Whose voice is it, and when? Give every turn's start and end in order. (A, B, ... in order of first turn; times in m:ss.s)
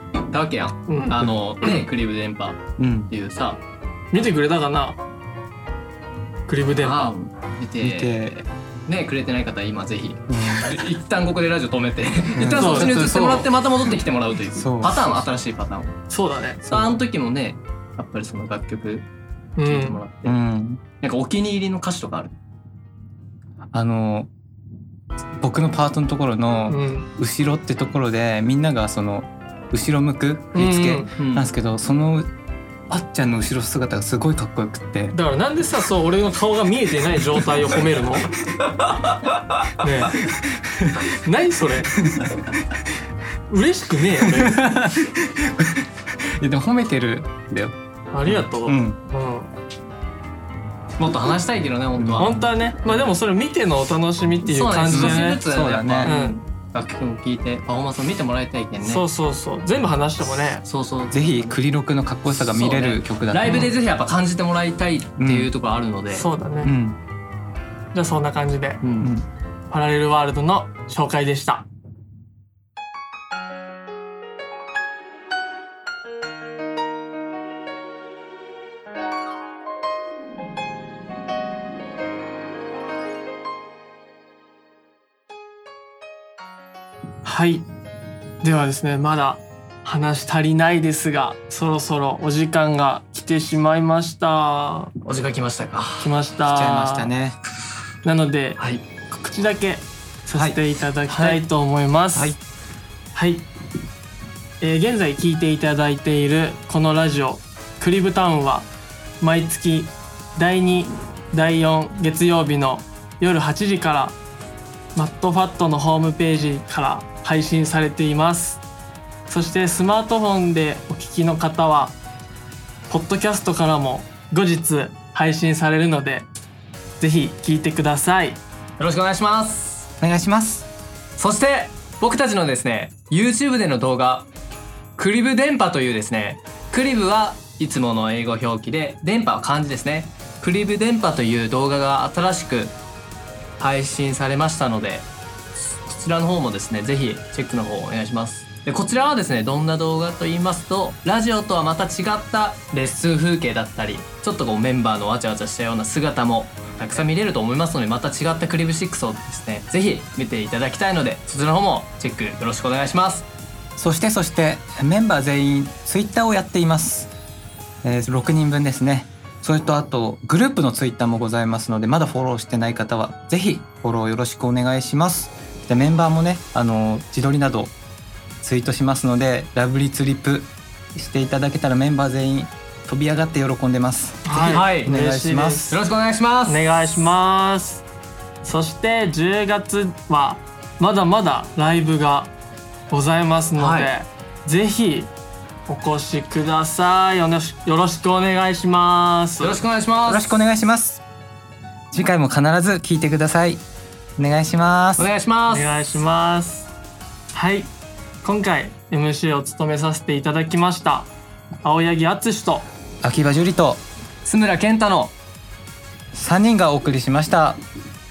0:00.3-0:03.6 A
0:00.9-0:01.8 B
0:02.8-0:03.1 C
0:04.1-0:05.0 B
0:06.5-0:07.1 B
0:06.8-0:08.2 A
0:07.8-0:08.4 C
0:08.9-0:16.0 A
0:10.3-0:10.7 C
0:12.4-0:13.5 C
0:12.4-0:13.3 B
0:14.5-0:15.2 C
0:16.1-0:16.6 B
0:16.7-0:17.0 C
0:16.7-0:19.0 A
0:19.6-0:20.0 B
0:19.6-0:20.4 A
0:20.2-0:20.8 C
0:21.0-0:22.3 A
0:23.7-0:24.3 C
0:25.4-0:32.3 C
0:26.7-0:27.1 B
0:30.5-0:31.1 B
0:31.2-0:31.4 A
0:32.9-0:35.2 C
0:35.1-0:38.3 B
0:39.8-0:40.2 B
0:41.2-0:42.0 B
0:43.5-0:44.7 B
0:44.4-0:47.7 C
0:48.1-0:49.5 B
0:48.2-0:49.0 C
0:51.0-0:52.4 A
0:52.0-0:52.4 C
0:52.2-0:55.4 B
0:54.4-0:59.0 A
0:54.9-0:56.1 C
0:56.0-0:56.4 B
0:58.8-1:00.6 B
1:00.6-1:01.6 A
1:01.1-1:03.7 C
1:02.3-1:06.3 A
1:05.2-1:05.5 C
1:06.1-1:06.7 B
1:06.6-1:07.0 C
1:07.9-1:08.8 B
1:08.8-1:09.1 A
1:09.0-1:09.2 C
1:09.7-1:11.6 B
1:27.2-1:27.7 B
1:28.4-1:34.9 B
1:35.0-1:36.1 A
1:36.0-1:37.1 B
1:36.4-1:37.4 C
1:38.0-1:42.4 B
1:41.1-1:41.4 A
1:43.1-1:43.5 B
1:44.6-1:48.7 B
1:49.2-1:54.2 B
1:55.0-1:58.6 B
1:59.3-2:02.0 B
2:02.9-2:06.3 B
2:07.0-2:08.4 B
2:08.8-2:09.9 A
2:10.0-2:10.6 C
2:11.2-2:14.3 A
2:15.0-2:22.7 A
2:23.6-2:43.2 A
2:43.8-2:47.1 C
2:47.8-2:57.7 C
2:58.4-3:05.7 C
3:04.2-3:05.8 B
3:04.5-3:04.9 A
3:05.7-3:06.6 A
3:06.4-3:07.8 B
3:08.4-3:12.3 B
3:12.9-3:15.1 B
3:13.6-3:13.9 A
3:15.7-3:19.6 B
3:19.4-3:20.3 A
3:20.0-3:21.0 C
3:21.9-3:23.6 C
3:24.2-3:25.1 C
3:25.0-3:25.7 A
3:25.5-3:26.7 B
3:27.3-3:27.7 B
3:28.2-3:31.1 B
3:31.6-3:32.6 B
3:33.0-3:33.8 C
3:34.2-3:35.1 A
3:36.1-3:37.6 C